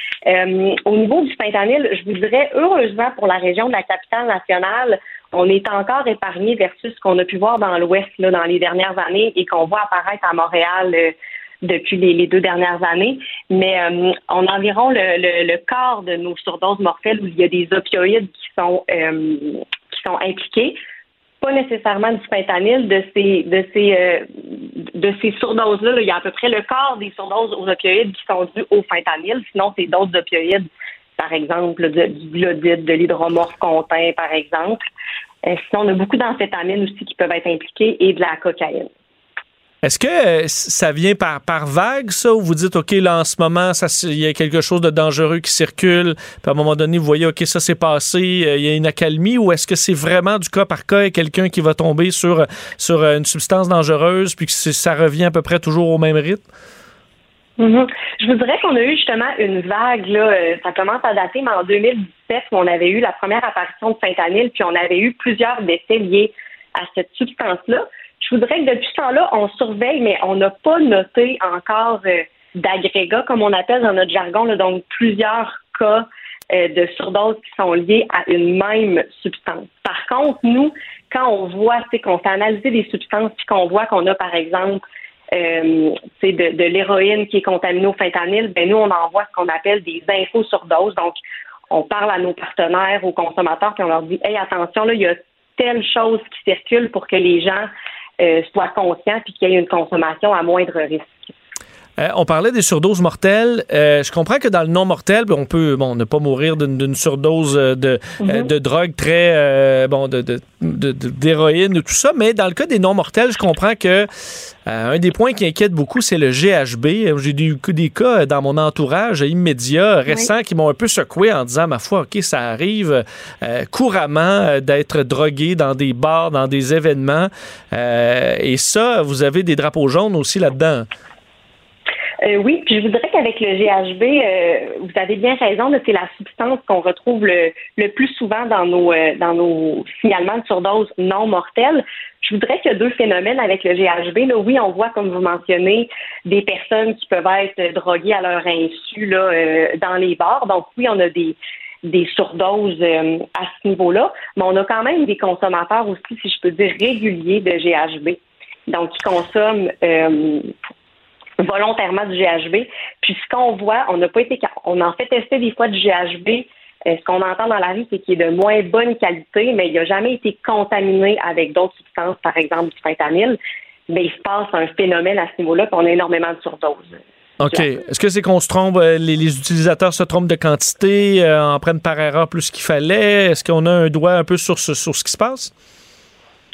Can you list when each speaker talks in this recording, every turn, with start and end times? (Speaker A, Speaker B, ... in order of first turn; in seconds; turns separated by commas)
Speaker A: 0.3-20.8, Speaker A: 21.4-30.7, Speaker A: 31.2-34.8, Speaker A: 35.4-38.9, Speaker B: 39.8-56.5, Speaker A: 57.6-84.8, Speaker A: 85.3-91.2, Speaker A: 91.7-97.7, Speaker A: 98.2-101.3, Speaker B: 102.0-114.1, Speaker A: 108.2-108.5, Speaker B: 114.7-130.9, Speaker A: 132.2-160.5, Speaker A: 161.4-173.4, Speaker A: 173.9-177.0, Speaker B: 177.4-185.5